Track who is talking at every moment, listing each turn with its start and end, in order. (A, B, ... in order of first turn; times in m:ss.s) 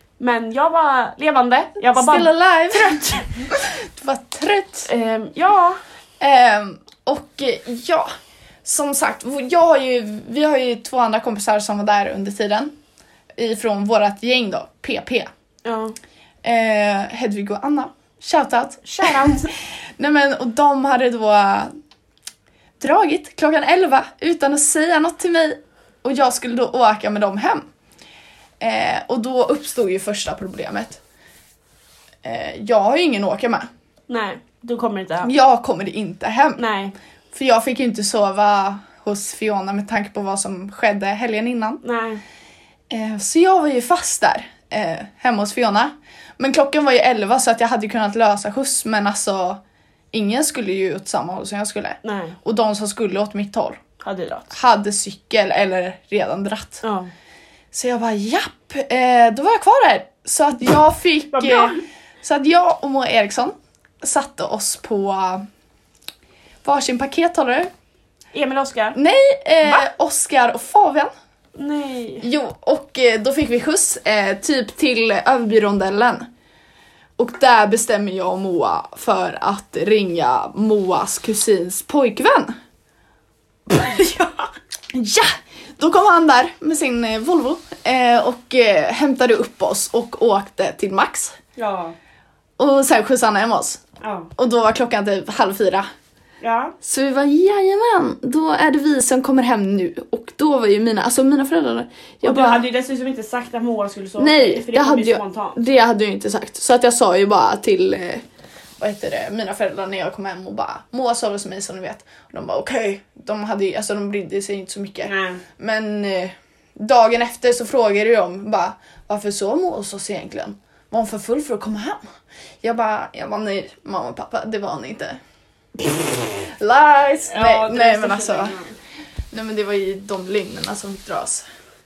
0:00.2-0:03.0 A
0:01.9-0:04.9 B
0:04.8-0:05.8 A
0:06.2-0:08.1 B
0:08.6-0:12.7 B
0:13.4-0:15.3 B
0:15.6-0:16.0 A
0:16.4-0:21.7 B
0:18.8-0:19.5 A
0:22.8-0:27.7 B
0:28.6-0:31.0 B
0:32.2-0:33.7 B
0:34.1-0:35.3 A
0:35.2-0:36.6 B
0:36.6-0:37.0 A
0:37.3-0:41.8 B
0:41.8-0:42.2 A
0:42.9-0:49.6 B
0:50.1-0:53.8 B
0:52.0-0:52.4 A
0:54.0-0:54.5 A
0:54.5-0:56.8 B
0:56.8-0:57.1 A
0:57.7-1:05.4 B
1:01.3-1:01.8 A
1:06.6-1:07.7 B
1:08.3-1:09.0 A
1:09.0-1:11.1 B
1:11.6-1:12.3 A
1:12.2-1:16.3 B
1:17.2-1:22.6 B
1:23.7-1:24.5 A
1:24.9-1:31.4 B
1:31.6-1:32.0 A
1:32.6-1:33.8 B
1:34.0-1:34.3 A
1:34.4-1:35.9 B
1:36.4-1:36.7 A
1:36.8-1:42.7 B
1:42.2-1:45.6 A
1:44.2-1:48.2 B
1:48.8-2:02.0 B
1:55.0-1:55.4 A
2:02.6-2:05.2 B
2:05.8-2:08.6 B
2:07.3-2:08.8 A
2:09.3-2:11.4 B